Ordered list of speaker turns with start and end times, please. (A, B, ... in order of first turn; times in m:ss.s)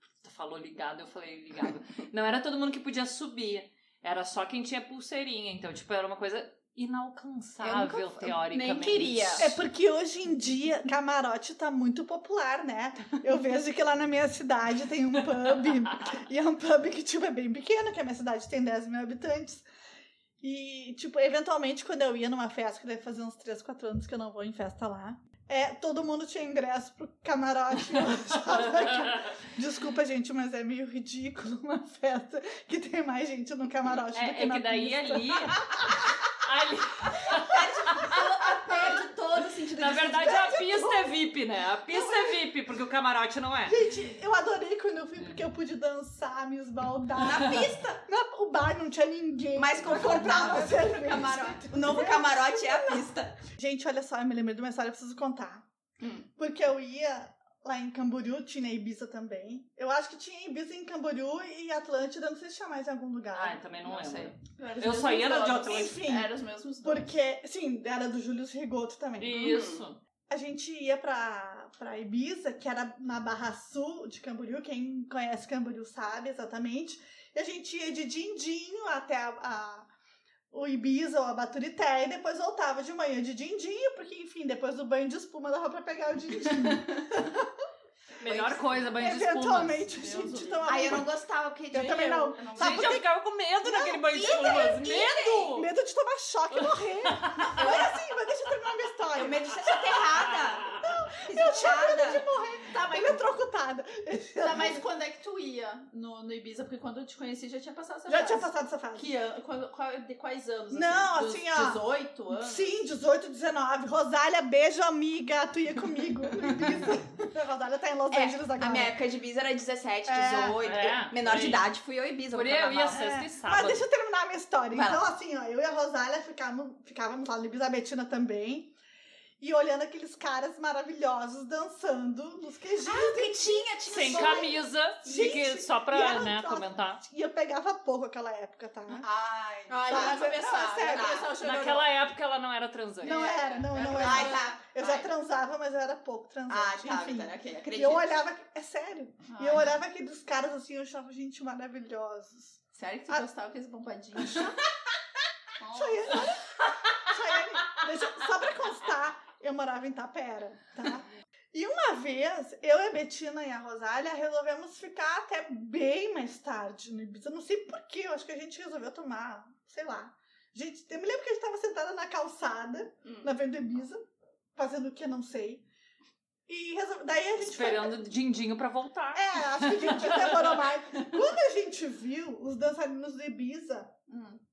0:00.2-0:09.5 A
0:07.6-0:08.3 B
0:08.5-0:09.5 C
0:09.4-0:19.6 D
0:20.4-0:36.0 D
0:28.8-0:29.3 A
0:34.1-0:38.2 A
0:37.3-0:40.6 B
0:38.5-0:39.0 D
0:39.8-0:43.8 A
0:40.2-0:41.2 D
0:41.9-0:42.4 D
0:43.7-0:55.7 D
0:47.2-0:48.0 B
0:49.6-0:53.4 B
0:56.0-0:56.3 B
0:56.4-1:03.6 D
1:03.3-1:06.0 A
1:03.9-1:04.3 B
1:04.6-1:07.1 C
1:05.6-1:09.7 D
1:09.2-1:10.0 A
1:09.3-1:09.8 B
1:10.3-1:19.9 D
1:20.5-1:27.5 D
1:28.2-1:29.9 A
1:28.2-1:28.9 B
1:29.0-1:31.2 D
1:29.9-1:31.0 C
1:30.6-1:33.0 B
1:31.7-1:33.1 D
1:31.8-1:32.7 C
1:32.6-1:35.7 A
1:33.6-1:44.8 D
1:34.1-1:35.6 B
1:36.5-1:37.7 A
1:37.4-1:38.0 B
1:39.2-1:42.2 B
1:40.0-1:40.8 A
1:42.7-1:43.2 C
1:44.4-1:52.7 C
1:48.1-1:49.1 D
1:50.7-1:51.8 D
1:52.3-1:59.0 D
1:58.1-2:03.0 B
2:00.1-2:00.6 D
2:00.6-2:01.7 A
2:02.3-2:03.8 A
2:02.9-2:08.7 D
2:04.7-2:05.0 B
2:09.4-2:19.1 D
2:12.8-2:14.5 B
2:13.9-2:17.0 A
2:19.0-2:22.0 C
2:19.1-2:21.3 B
2:19.8-2:21.3 D
2:21.4-2:23.2 A
2:23.0-2:33.2 D
2:23.0-2:24.9 C
2:23.8-2:24.9 B
2:26.5-2:28.1 B
2:29.3-2:29.7 C
2:32.7-2:34.5 C
2:34.2-2:34.6 D
2:35.6-2:36.3 C
2:35.7-2:54.0 D
2:54.6-2:55.6 D
2:56.5-2:58.0 D
2:57.4-3:00.7 A
2:59.1-3:03.9 D
3:04.1-3:04.4 C